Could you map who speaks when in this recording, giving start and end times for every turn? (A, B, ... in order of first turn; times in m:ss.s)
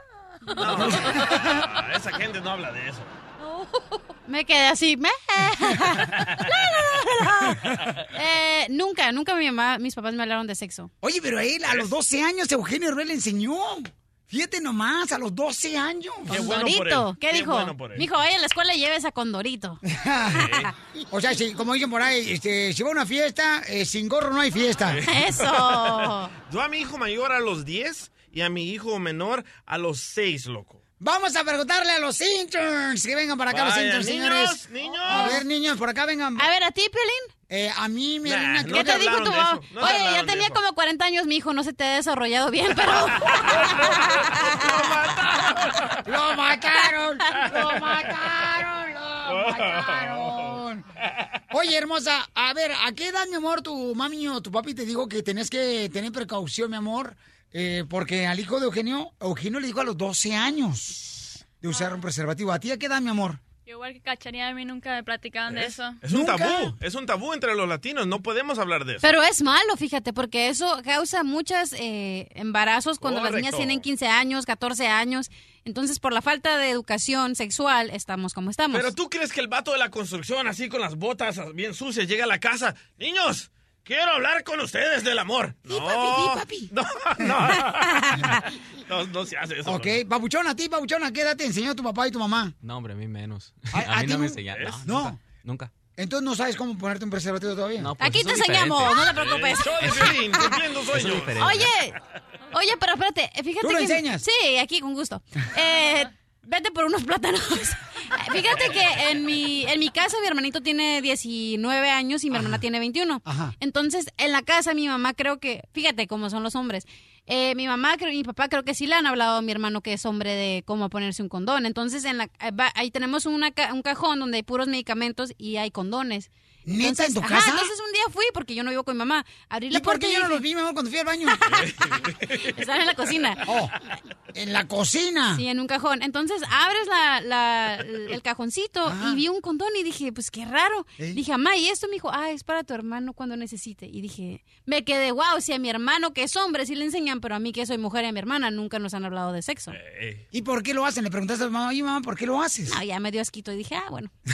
0:00.5-0:03.1 A
0:00.8-0:01.2 B
0:04.2-0:10.9 C
0:11.0-0:16.4 B
0:16.3-0:19.8 C
0:16.3-0:18.1 A
0:19.8-0:20.5 B
0:20.3-0:20.7 A
0:21.1-0:25.0 B
0:24.9-0:30.8 A
0:25.0-0:26.3 C
0:31.0-0:36.5 B
0:33.5-0:35.4 A
0:36.4-0:37.3 C
0:37.5-0:39.0 B
0:38.2-0:40.6 A
0:38.7-0:45.0 C
0:43.3-0:45.9 A
0:46.0-0:50.8 B
0:47.5-0:47.8 A
0:49.3-0:50.6 A
0:51.5-1:03.4 B
1:03.6-1:06.0 D
1:05.5-1:09.1 A
1:06.1-1:06.7 B
1:09.0-1:18.9 C
1:13.0-1:13.8 A
1:18.7-1:30.0 A
1:25.7-1:26.7 B
1:29.6-1:32.5 B
1:32.6-1:35.7 E
1:33.7-1:35.2 B
1:34.5-1:34.8 A
1:36.0-1:37.9 B
1:37.8-1:39.0 E
1:38.0-1:40.6 C
1:39.0-1:41.5 A
1:40.9-1:41.7 E
1:41.4-1:42.0 C
1:42.5-2:10.4 C
1:43.6-1:44.2 B
1:52.3-1:52.6 B
1:53.2-1:53.5 B
2:06.6-2:07.7 B
2:09.7-2:11.4 B
2:11.3-2:11.7 C
2:11.5-2:12.4 A
2:12.4-2:13.4 C
2:13.4-2:13.7 B
2:14.3-2:15.4 B
2:15.3-2:29.8 C
2:18.8-2:19.2 B
2:29.7-2:30.2 A
2:30.3-2:32.8 B
2:32.7-2:34.1 C